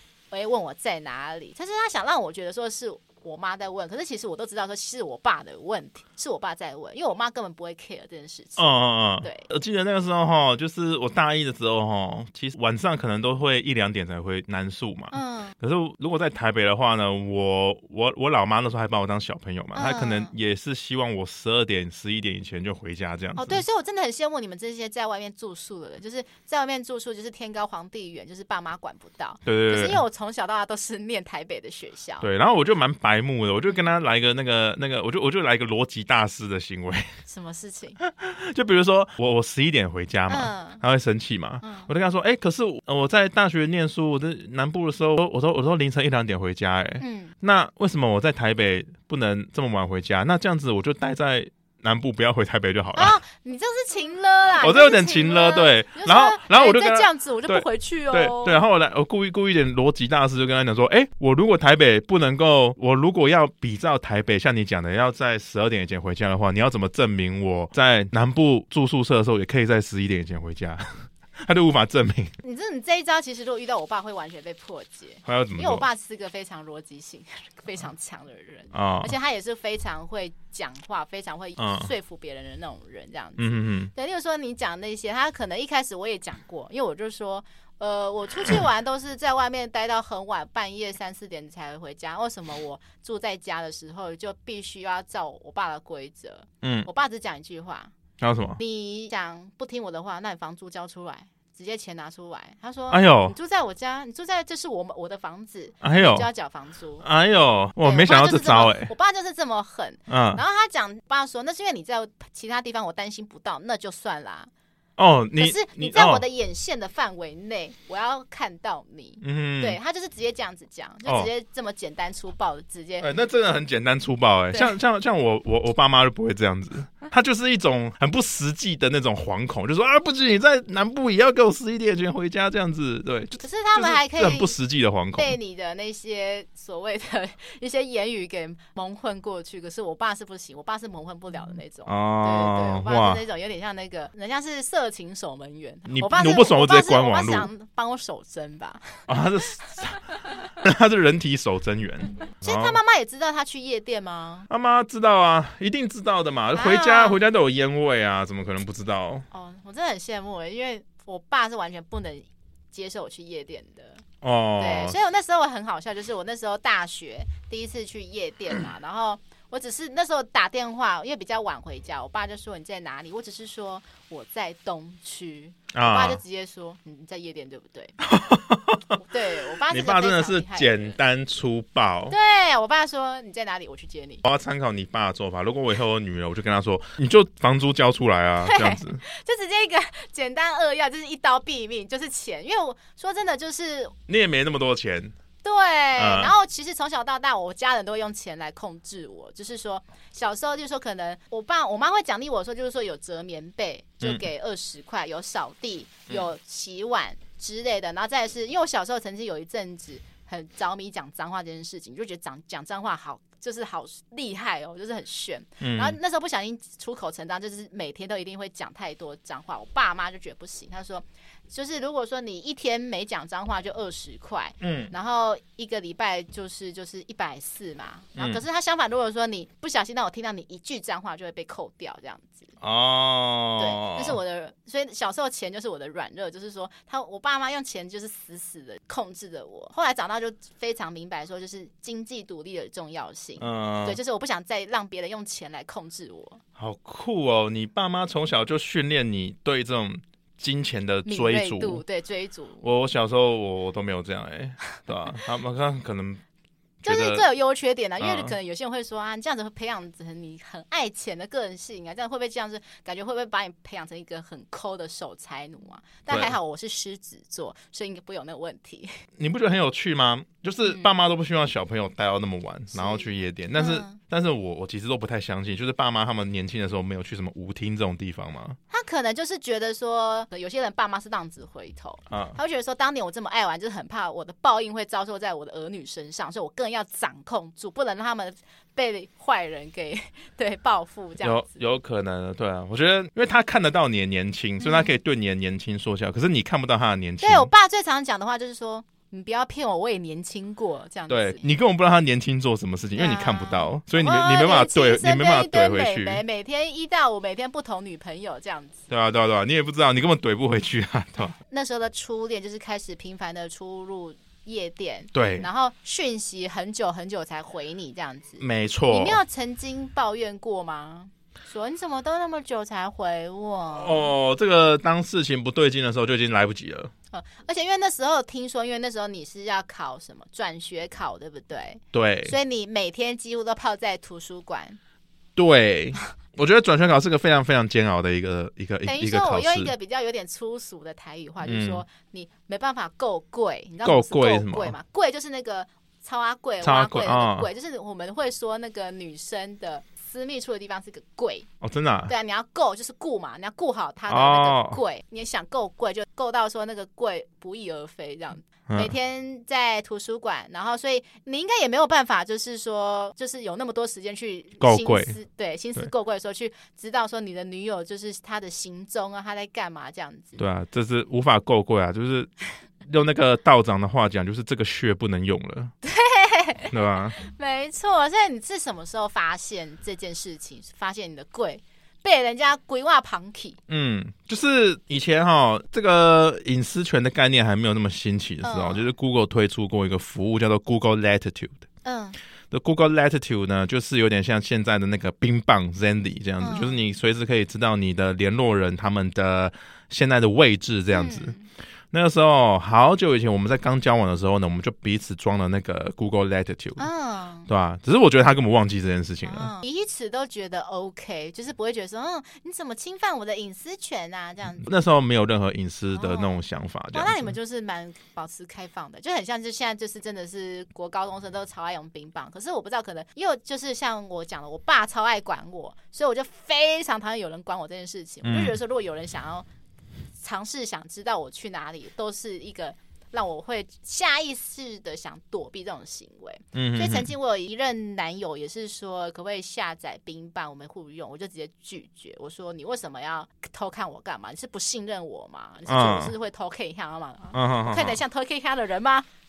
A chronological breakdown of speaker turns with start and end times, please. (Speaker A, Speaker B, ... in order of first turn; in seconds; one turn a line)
Speaker A: 0.3-8.7
Speaker B: 8.6-23.6
Speaker A: 9.2-9.5
Speaker A: 15.1-15.6
Speaker A: 19.8-20.3
Speaker A: 23.4-32.3
Speaker B: 29.4-30.0
Speaker B: 32.2-37.1
Speaker A: 37.3-38.0
Speaker B: 38.0-53.2
Speaker A: 40.3-40.8
Speaker A: 41.6-41.9
Speaker A: 47.0-47.3
Speaker A: 53.0-58.6
Speaker B: 54.6-72.3
Speaker A: 72.4-97.9
Speaker B: 75.3-75.9
Speaker B: 78.7-79.2
Speaker B: 81.6-81.9
Speaker B: 83.4-83.9
Speaker B: 96.6-96.9
Speaker B: 98.2-98.6
Speaker A: 98.6-107.0
Speaker B: 102.9-103.3
Speaker B: 105.8-106.3
Speaker B: 107.0-108.9
Speaker A: 107.8-114.5
Speaker B: 110.1-110.4
Speaker B: 115.0-116.2
Speaker A: 115.4-123.1
Speaker B: 119.2-119.8
Speaker B: 123.0-135.4
Speaker A: 133.4-134.6
Speaker A: 135.2-149.1
Speaker B: 141.9-143.2
Speaker B: 145.9-147.5
Speaker B: 149.1-150.0
Speaker B: 150.6-152.8
Speaker A: 152.4-154.5
Speaker B: 154.5-159.2
Speaker A: 156.5-157.2
Speaker A: 159.3-164.0
Speaker B: 164.2-165.0
Speaker A: 164.6-178.0
Speaker B: 175.7-176.2
Speaker B: 178.0-182.2
Speaker A: 179.0-181.0
Speaker A: 182.1-184.2
Speaker B: 184.2-189.0
Speaker A: 188.4-194.0
Speaker B: 194.1-195.1
Speaker A: 195.4-232.5
Speaker B: 196.0-196.3
Speaker B: 215.6-216.0
Speaker B: 224.6-224.9
Speaker B: 228.2-228.4
Speaker B: 232.6-234.2
Speaker A: 233.6-246.4
Speaker B: 243.4-244.0
Speaker B: 246.6-251.8
Speaker A: 251.1-252.6
Speaker B: 252.6-256.2
Speaker B: 256.8-257.2
Speaker A: 256.9-268.9
Speaker B: 258.0-258.4
Speaker B: 266.1-266.4
Speaker B: 269.2-278.6
Speaker A: 272.7-274.0
Speaker A: 278.7-291.6
Speaker B: 282.1-282.4
Speaker B: 291.2-297.5
Speaker A: 294.6-294.9
Speaker A: 297.2-301.5
Speaker B: 301.1-306.2
Speaker A: 303.0-308.8
Speaker B: 308.9-311.4
Speaker A: 311.4-324.1
Speaker B: 315.1-315.5
Speaker B: 318.4-319.2
Speaker B: 323.7-326.9
Speaker A: 327.1-334.8
Speaker B: 331.9-332.4
Speaker B: 335.4-339.7
Speaker A: 338.9-351.5
Speaker B: 341.4-341.8
Speaker B: 343.8-344.8
Speaker B: 346.6-347.5
Speaker B: 351.6-352.1
Speaker A: 352.1-370.4
Speaker B: 354.1-354.8
Speaker B: 364.6-365.2
Speaker B: 370.4-372.3
Speaker B: 372.9-375.7
Speaker A: 375.8-383.6
Speaker B: 376.7-377.2
Speaker B: 383.7-391.6
Speaker A: 388.4-388.9
Speaker A: 391.8-392.2
Speaker B: 392.5-401.4
Speaker A: 396.4-396.8
Speaker A: 400.9-401.4
Speaker B: 401.9-406.9
Speaker A: 406.8-407.5
Speaker B: 407.5-409.5
Speaker A: 409.2-414.7
Speaker B: 414.6-417.3
Speaker A: 415.9-416.4
Speaker A: 416.9-429.5
Speaker B: 428.2-428.6
Speaker A: 430.2-449.1
Speaker B: 436.5-437.1
Speaker B: 445.7-446.1
Speaker B: 447.3-448.0